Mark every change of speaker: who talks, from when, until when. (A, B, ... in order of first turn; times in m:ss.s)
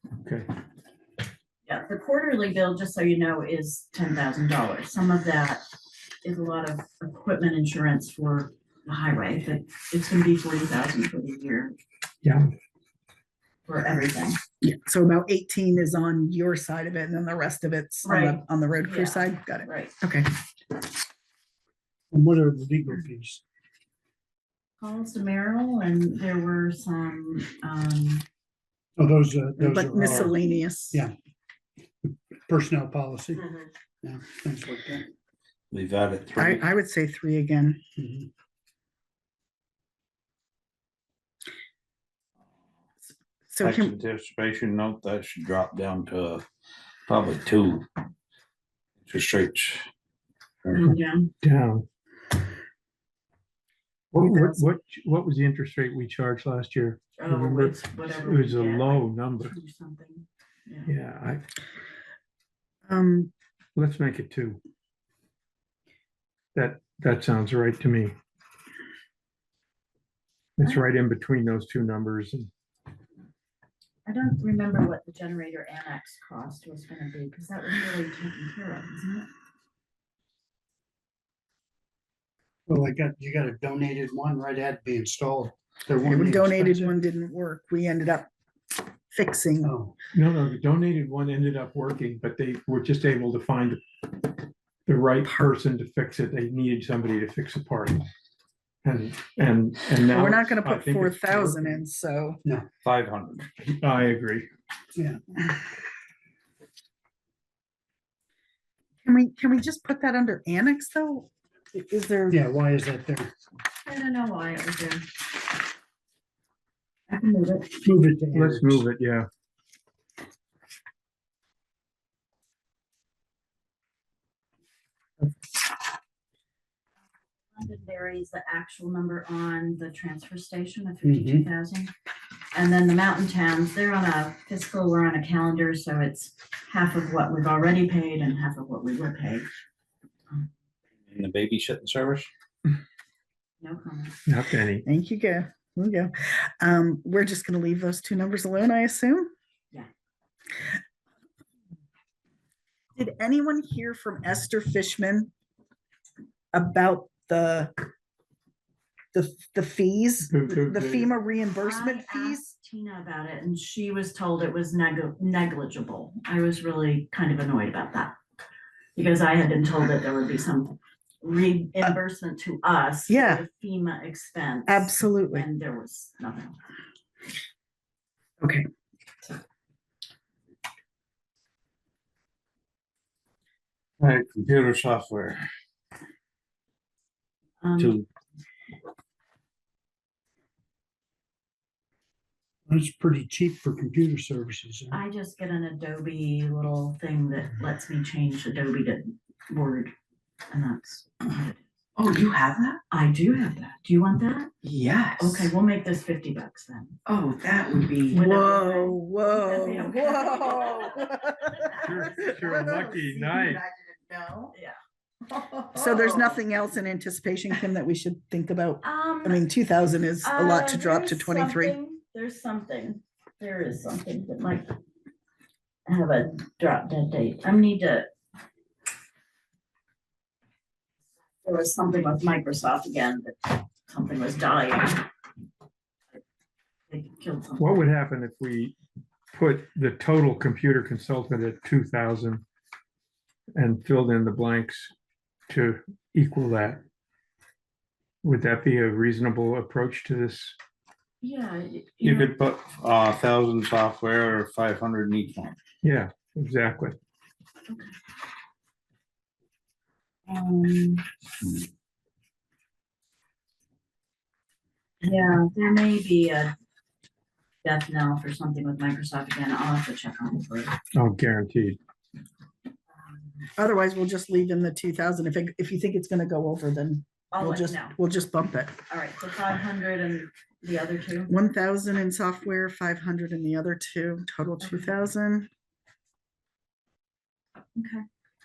0:01.6-0:05.6 A
0:06.2-0:11.7 A
0:13.6-0:14.4 A
0:14.6-0:20.3 B
0:18.0-0:19.9 A
0:22.1-0:23.4 C
0:24.8-0:28.2 A
0:29.0-0:31.1 C
0:29.6-0:31.0 B
0:32.1-0:35.0 C
0:35.7-0:36.6 D
0:36.4-0:37.8 B
0:38.0-0:38.3 C
0:43.5-0:43.9 B
0:43.6-0:46.4 D
0:47.1-0:47.8 D
0:49.0-0:49.9 D
0:50.7-0:51.3 A
0:51.4-0:51.8 E
0:54.1-0:59.5 E
0:57.2-1:00.9 A
1:00.9-1:01.4 E
1:02.9-1:03.3 B
1:03.8-1:04.6 E
1:06.5-1:08.1 E
1:10.6-1:12.5 E
1:14.0-1:19.3 A
1:22.7-1:27.0 C
1:26.0-1:28.3 B
1:29.1-1:29.7 B
1:29.6-1:29.9 C
1:30.1-1:33.8 E
1:34.8-1:38.0 E
1:38.8-1:41.8 E
1:40.1-1:42.4 B
1:42.9-1:43.4 D
1:43.6-1:44.5 E
1:49.0-1:52.4 B
1:52.3-1:53.3 C
1:53.8-1:55.0 A
1:57.1-1:57.7 A
1:57.8-1:58.8 C
1:58.3-1:59.3 E
2:07.5-2:11.9 A
2:11.0-2:11.5 C
2:12.5-2:19.5 A
2:21.1-2:22.3 D
2:23.6-2:24.2 A
2:24.3-2:24.8 E
2:24.8-2:29.3 B
2:33.0-2:35.3 B
2:36.5-2:37.7 B
2:39.1-2:42.5 B
2:40.3-2:41.1 E
2:41.6-2:48.2 A
2:48.9-2:56.6 A
2:53.1-2:53.4 B
2:54.7-2:55.5 B
3:04.0-3:05.4 D
3:07.6-3:08.0 A
3:07.8-3:08.0 D
3:12.7-3:15.0 C
3:14.9-3:19.9 A
3:20.5-3:21.6 A
3:22.0-3:22.8 F
3:22.9-3:24.5 A
3:24.6-3:25.5 F
3:25.2-3:27.0 A
3:27.0-3:28.2 F
3:28.1-3:32.0 A
3:28.1-3:34.5 B
3:31.6-3:33.6 E
3:35.5-3:36.2 A
3:35.7-3:41.8 B
3:38.8-3:39.4 A
3:40.2-3:44.7 A
3:45.9-3:48.1 A
3:51.4-3:55.1 A
3:56.9-3:57.8 A
3:57.6-3:58.8 E
3:59.3-4:02.4 E
4:03.6-4:04.9 E
4:05.5-4:06.8 E
4:08.2-4:10.5 E
4:11.2-4:12.3 A
4:12.0-4:15.6 D
4:15.8-4:17.0 E
4:17.7-4:17.9 A
4:20.3-4:21.0 A
4:25.0-4:26.5 A
4:27.6-4:30.7 A
4:30.9-4:31.8 E
4:33.6-4:38.8 B
4:37.3-4:37.9 A
4:38.9-4:41.3 A
4:41.3-4:45.5 B
4:44.6-4:44.9 A
4:47.8-4:48.0 A